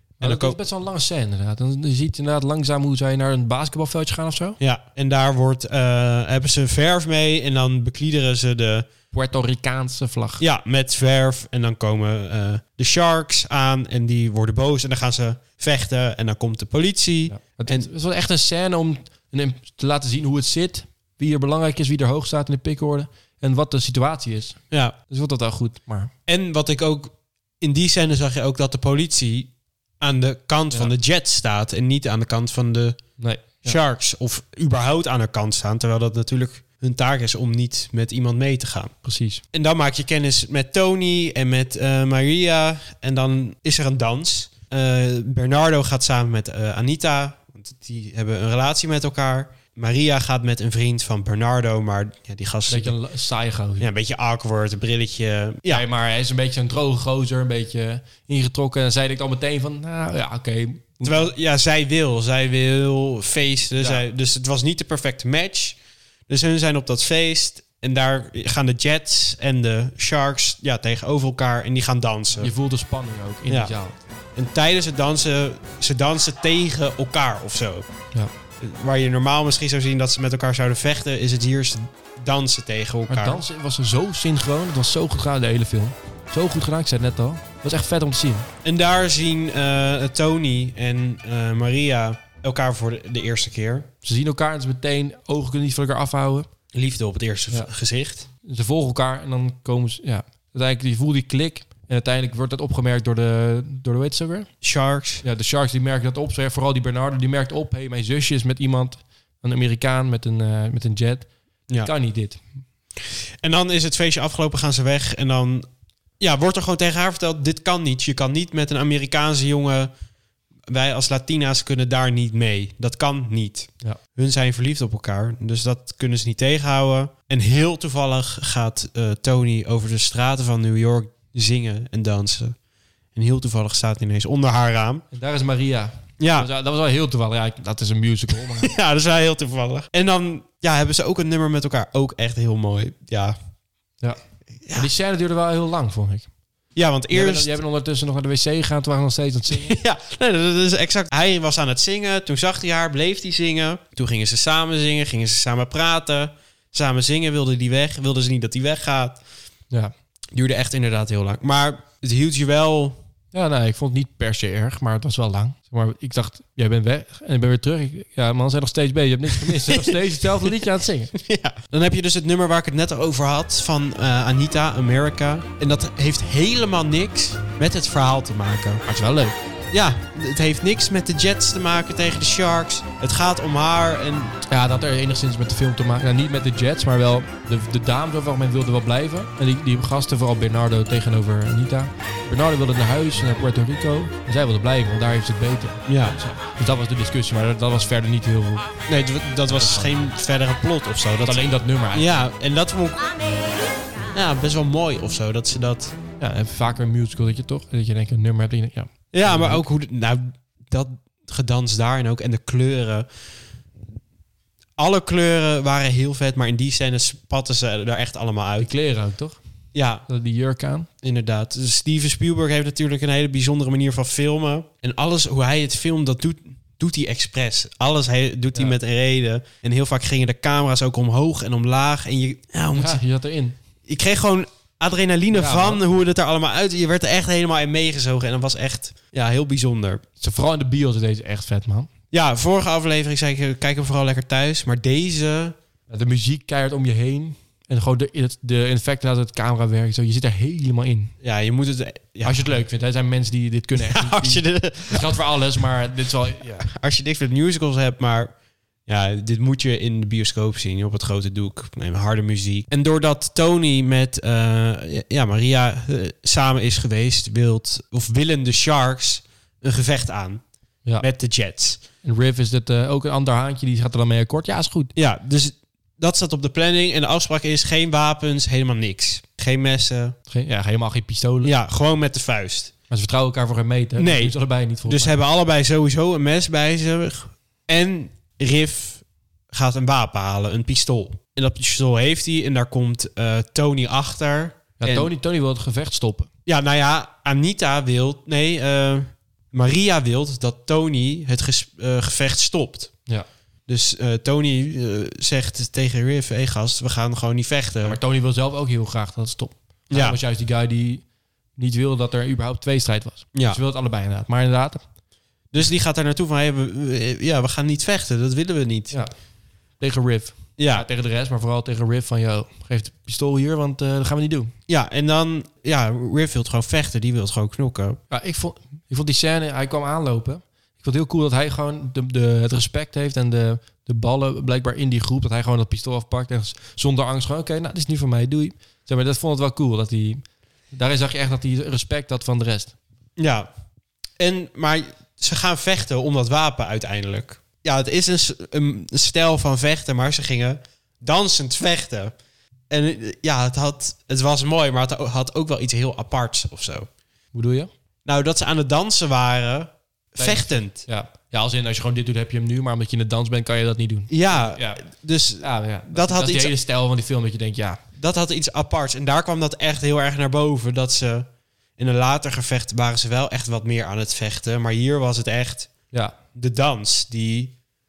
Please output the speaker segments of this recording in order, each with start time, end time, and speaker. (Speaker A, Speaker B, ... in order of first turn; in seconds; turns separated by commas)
Speaker A: 0.2-4.6, Speaker B: 0.2-0.6, Speaker B: 4.6-8.9, Speaker A: 9.1-10.4, Speaker B: 10.4-17.9, Speaker A: 17.3-26.1, Speaker B: 26.2-33.1, Speaker A: 33.2-33.8, Speaker B: 33.6-38.9, Speaker A: 39.0-39.4, Speaker B: 39.5-53.0, Speaker A: 52.7-53.9, Speaker B: 53.8-55.8, Speaker A: 55.7-61.3, Speaker B: 61.0-72.5, Speaker A: 72.4-74.0, Speaker B: 73.5-73.8, Speaker B: 74.3-77.8, Speaker B: 78.6-83.4, Speaker A: 83.1-88.5, Speaker B: 88.6-93.9, Speaker A: 94.0-96.5, Speaker B: 96.7-98.3, Speaker A: 98.4-104.5, Speaker B: 104.6-105.2, Speaker A: 105.2-112.4, Speaker B: 113.0-115.7, Speaker B: 116.2-119.9, Speaker B: 120.7-132.6, Speaker B: 133.1-135.0, Speaker A: 135.1-138.7, Speaker B: 136.2-136.5, Speaker B: 138.5-143.3, Speaker A: 144.7-146.3, Speaker B: 146.7-147.6, Speaker A: 147.1-149.8, Speaker B: 149.5-159.2, Speaker B: 160.3-163.0, Speaker A: 163.3-171.1, Speaker B: 169.3-170.6, Speaker B: 171.1-178.8, Speaker A: 178.9-179.3, Speaker B: 179.7-184.4, Speaker A: 184.5-198.7, Speaker B: 195.9-196.2, Speaker B: 198.9-203.1, Speaker A: 199.4-200.0, Speaker A: 201.2-202.1, Speaker B: 204.1-205.9, Speaker A: 206.2-209.6, Speaker B: 209.1-213.1, Speaker B: 214.8-218.7, Speaker A: 218.6-219.4, Speaker B: 219.7-220.0, Speaker A: 220.1-220.9, Speaker B: 221.0-233.0, Speaker A: 232.7-233.6, Speaker B: 233.8-240.0, Speaker A: 235.3-235.8, Speaker A: 240.2-241.9, Speaker B: 242.1-245.6, Speaker A: 245.9-251.1, Speaker B: 251.2-252.4, Speaker A: 252.2-256.7, Speaker B: 253.8-255.1, Speaker B: 256.4-258.3, Speaker B: 258.9-270.4, Speaker B: 271.0-271.8, Speaker A: 272.0-274.9, Speaker B: 274.9-280.1, Speaker A: 280.3-281.5, Speaker B: 281.4-282.7, Speaker A: 282.9-285.1, Speaker B: 284.0-295.1, Speaker A: 294.8-296.3, Speaker B: 296.4-302.9, Speaker B: 303.7-308.0, Speaker A: 307.8-311.0, Speaker B: 309.9-310.2, Speaker A: 311.6-314.8, Speaker B: 315.5-319.0, Speaker A: 319.8-324.5, Speaker B: 320.6-320.8, Speaker B: 324.7-328.0, Speaker A: 328.1-342.7, Speaker B: 343.2-343.5, Speaker B: 344.2-352.1, Speaker B: 352.7-356.9, Speaker A: 357.3-357.7, Speaker B: 358.0-360.8, Speaker A: 360.1-364.8, Speaker B: 364.1-366.5, Speaker A: 365.4-367.8, Speaker B: 368.0-375.7, Speaker B: 376.3-377.5